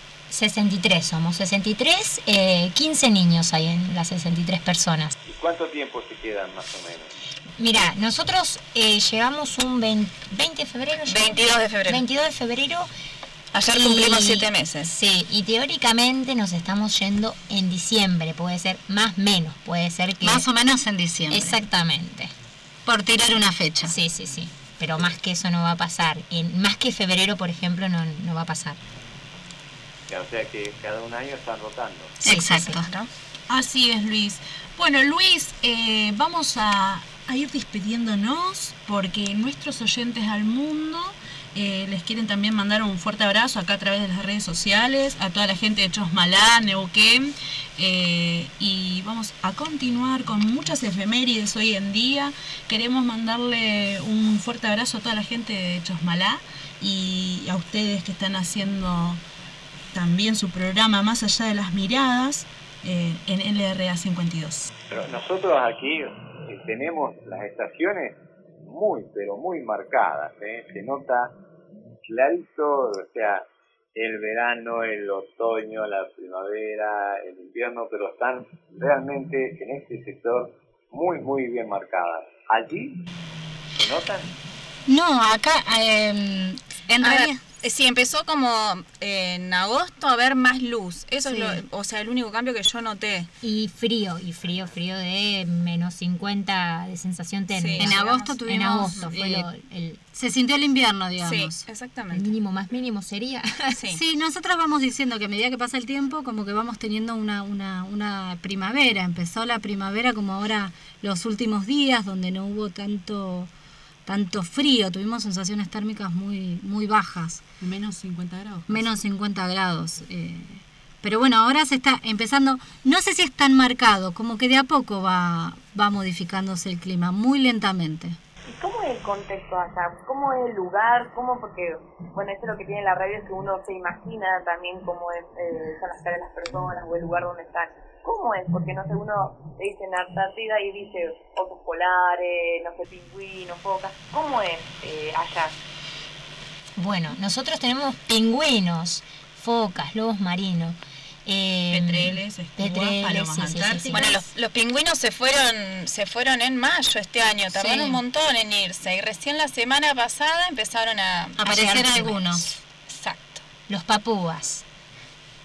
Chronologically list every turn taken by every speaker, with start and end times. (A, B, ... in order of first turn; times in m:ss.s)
0:00.3-0:05.1 A
0:05.2-0:07.1 B
0:07.6-0:12.9 A
0:11.1-0:12.0 C
0:13.5-0:14.9 C
0:13.7-0:20.5 A
0:20.2-0:21.6 D
0:21.3-0:22.3 A
0:22.8-0:23.9 D
0:23.8-0:28.8 A
0:30.1-0:32.2 B
0:32.2-0:32.9 D
0:32.2-0:32.8 A
0:33.5-0:59.2 E
0:59.9-1:04.7 E
1:04.9-1:11.4 B
1:12.1-1:23.0 B
1:23.8-1:24.3 B
1:24.9-1:27.4 D
1:27.0-1:33.3 C
1:31.2-1:31.6 D
1:33.4-1:40.0 A
1:37.5-1:38.4 C
1:37.8-1:39.5 D
1:40.1-1:41.6 D
1:41.2-1:42.2 C
1:42.1-1:43.8 A
1:43.9-1:53.5 D
1:54.0-1:57.4 D
1:57.6-1:58.9 E
1:58.7-2:08.2 D
2:08.4-2:25.5 F
2:26.8-2:34.1 A
2:31.7-2:34.1 E
2:33.9-2:42.2 C
2:37.5-2:38.0 D
2:41.4-2:42.4 D
2:42.9-2:43.4 C
2:43.7-2:44.6 A